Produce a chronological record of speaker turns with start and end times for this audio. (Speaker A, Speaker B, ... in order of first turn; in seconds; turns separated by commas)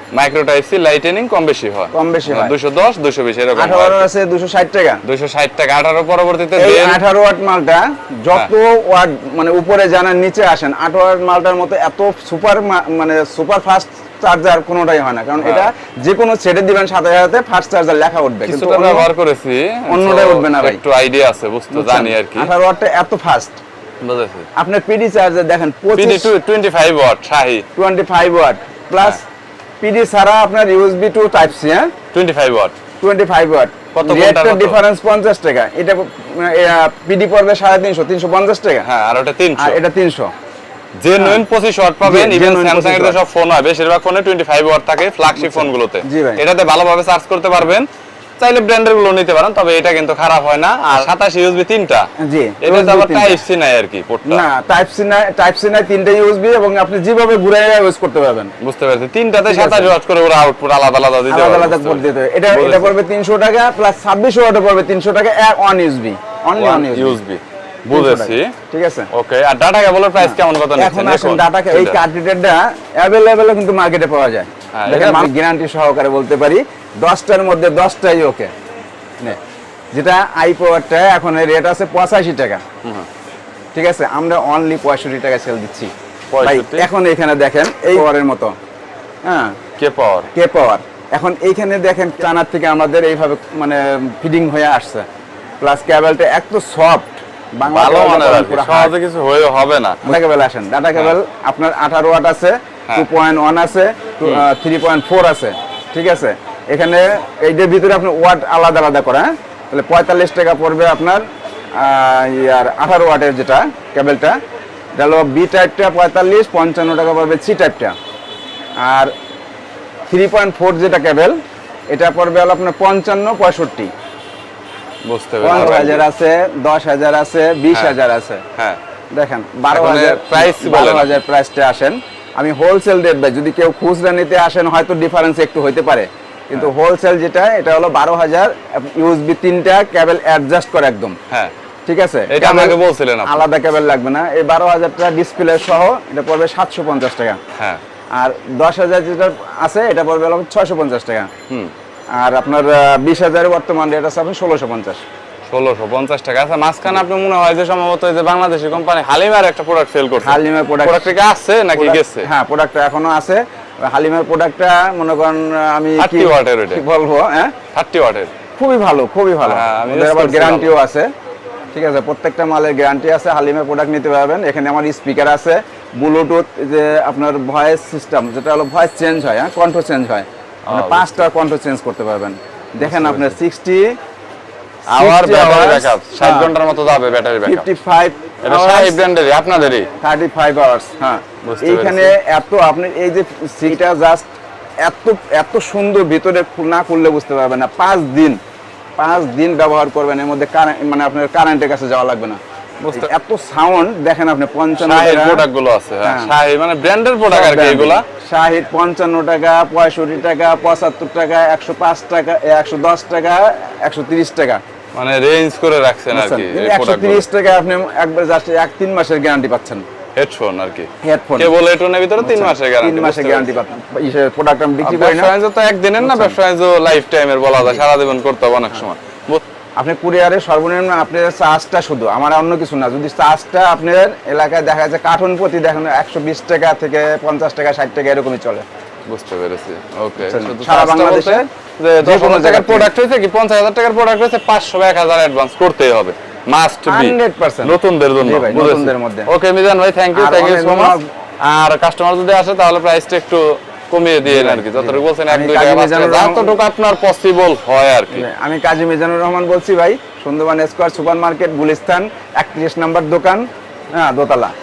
Speaker A: 0.1-4.1, Speaker B: 1.9-2.5, Speaker B: 3.6-5.0, Speaker A: 5.0-7.0, Speaker B: 6.6-19.1, Speaker A: 15.4-15.7, Speaker A: 18.4-22.5, Speaker B: 19.9-20.8, Speaker B: 21.7-23.6, Speaker A: 24.0-24.5, Speaker B: 24.6-26.3, Speaker A: 25.9-27.6, Speaker B: 27.8-29.2, Speaker B: 29.8-31.9, Speaker A: 32.1-32.8, Speaker B: 33.0-38.9, Speaker A: 33.9-34.8, Speaker A: 38.9-39.8, Speaker B: 39.6-40.3, Speaker A: 41.0-47.9, Speaker B: 41.1-41.4, Speaker B: 42.0-43.2, Speaker B: 45.4-46.4, Speaker A: 48.4-52.1, Speaker B: 52.2-53.4, Speaker A: 52.6-54.4, Speaker B: 54.3-58.5, Speaker A: 58.6-62.9, Speaker B: 59.4-59.9, Speaker B: 61.3-67.2, Speaker A: 66.5-68.5, Speaker B: 67.9-69.1, Speaker A: 69.1-72.0, Speaker B: 70.2-78.5, Speaker A: 74.7-75.3, Speaker B: 79.9-82.6, Speaker A: 82.8-83.1, Speaker B: 83.8-88.5, Speaker A: 86.3-86.9, Speaker B: 89.3-89.5, Speaker A: 89.8-90.3, Speaker B: 90.3-95.0, Speaker B: 95.6-98.9, Speaker A: 97.7-100.0, Speaker B: 100.0-111.2, Speaker B: 111.8-114.4, Speaker B: 115.0-117.9, Speaker B: 118.8-119.1, Speaker B: 120.1-121.4, Speaker B: 121.9-123.9, Speaker A: 125.0-126.1, Speaker B: 125.4-128.4, Speaker B: 129.1-141.2, Speaker A: 129.7-131.2, Speaker B: 141.9-147.4, Speaker A: 142.3-143.4, Speaker A: 147.6-147.8, Speaker B: 148.2-151.3, Speaker B: 152.2-155.0, Speaker A: 155.5-162.3, Speaker B: 160.2-161.1, Speaker B: 161.8-167.6, Speaker A: 166.0-166.8, Speaker A: 167.7-168.3, Speaker B: 168.6-171.1, Speaker A: 169.4-170.7, Speaker B: 171.7-183.9, Speaker A: 180.7-181.2, Speaker A: 182.8-183.4, Speaker B: 184.9-186.5, Speaker A: 184.9-187.7, Speaker B: 187.4-189.0, Speaker A: 188.4-189.9, Speaker B: 190.0-194.3, Speaker A: 191.4-192.2, Speaker B: 194.8-198.4, Speaker B: 199.0-202.4, Speaker A: 202.8-203.1, Speaker B: 202.9-205.4, Speaker A: 204.8-208.1, Speaker B: 206.0-206.3, Speaker B: 207.2-214.6, Speaker A: 214.9-217.2, Speaker B: 216.1-219.8, Speaker A: 220.2-223.6, Speaker B: 221.0-221.5, Speaker B: 222.2-225.3, Speaker A: 224.8-229.4, Speaker B: 226.0-226.3, Speaker B: 229.8-238.7, Speaker A: 239.1-258.3, Speaker B: 240.2-241.5, Speaker B: 242.0-242.9, Speaker B: 246.9-249.3, Speaker B: 250.1-251.1, Speaker B: 254.3-256.6, Speaker B: 258.1-264.5